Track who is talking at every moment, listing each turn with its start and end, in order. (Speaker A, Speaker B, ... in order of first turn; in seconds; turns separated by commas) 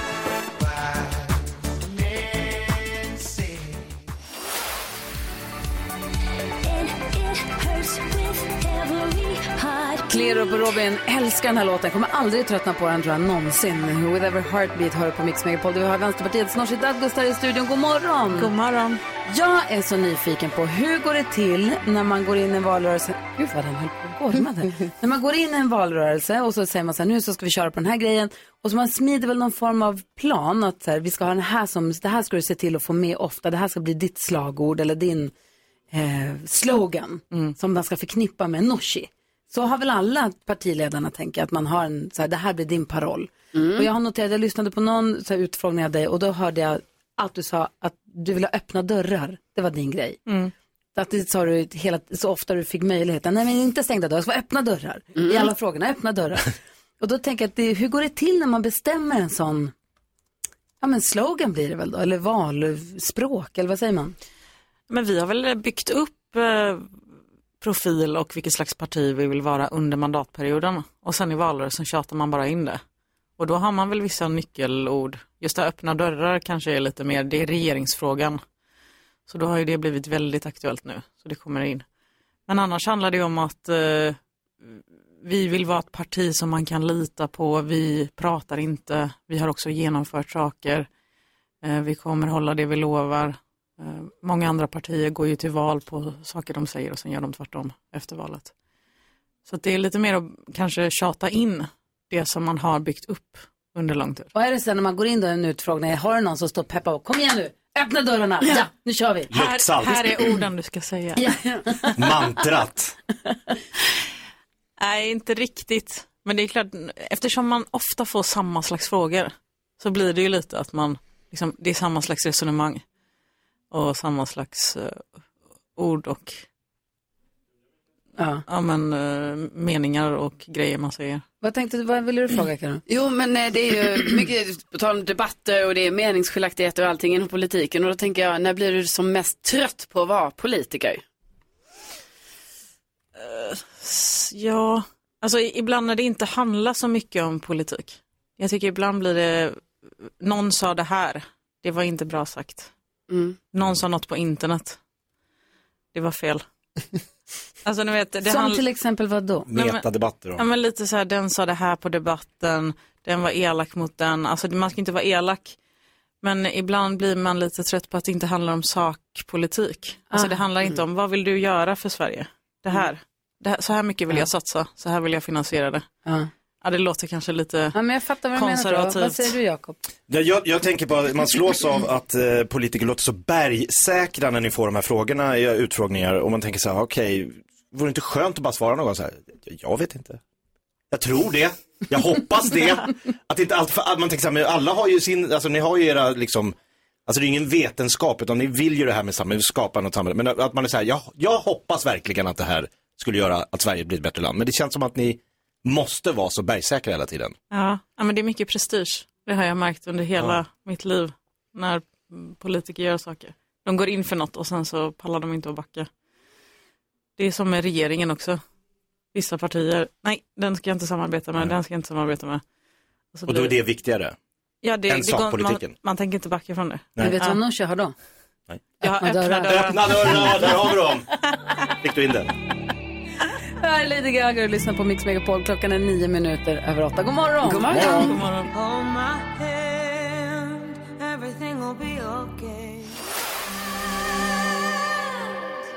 Speaker A: 6.7-10.0, Speaker B: 10.1-18.5, Speaker C: 18.3-19.0, Speaker B: 19.2-35.3, Speaker B: 35.9-50.2, Speaker D: 43.5-43.9, Speaker C: 50.2-50.5, Speaker B: 50.9-59.7, Speaker D: 55.1-55.5, Speaker B: 60.8-64.2, Speaker C: 64.9-66.9, Speaker C: 67.6-72.8, Speaker C: 73.4-78.4, Speaker C: 79.3-81.8, Speaker C: 82.5-90.9, Speaker C: 91.6-98.5, Speaker C: 99.5-104.3, Speaker B: 104.3-109.3, Speaker E: 109.3-110.4, Speaker C: 109.3-111.3, Speaker B: 111.2-112.0, Speaker E: 111.9-113.0, Speaker C: 114.8-122.8, Speaker C: 123.7-125.0, Speaker C: 125.8-126.4, Speaker B: 128.2-128.4, Speaker C: 128.5-131.2, Speaker B: 131.4-132.8, Speaker D: 132.9-141.0, Speaker C: 143.2-149.6, Speaker C: 150.2-152.7, Speaker D: 153.1-153.4, Speaker C: 153.5-154.8, Speaker C: 155.9-156.4, Speaker C: 157.6-158.6, Speaker B: 158.3-159.5, Speaker E: 159.5-160.4, Speaker C: 159.5-159.8, Speaker C: 160.3-165.6, Speaker C: 166.2-175.9, Speaker B: 170.1-170.4, Speaker C: 176.6-177.8, Speaker B: 177.7-179.8, Speaker C: 178.3-179.3, Speaker E: 180.1-190.2, Speaker E: 190.9-196.5, Speaker E: 197.1-207.3, Speaker C: 207.5-215.9, Speaker C: 217.2-218.4, Speaker C: 219.1-222.4, Speaker C: 223.1-223.5, Speaker E: 223.3-224.2, Speaker C: 224.6-227.4, Speaker E: 224.9-225.7, Speaker B: 227.0-227.9, Speaker C: 228.8-229.8, Speaker B: 228.9-230.5, Speaker E: 229.4-231.1, Speaker E: 231.8-232.3, Speaker B: 233.6-238.1, Speaker D: 237.5-237.9, Speaker C: 237.8-238.5, Speaker A: 238.2-243.0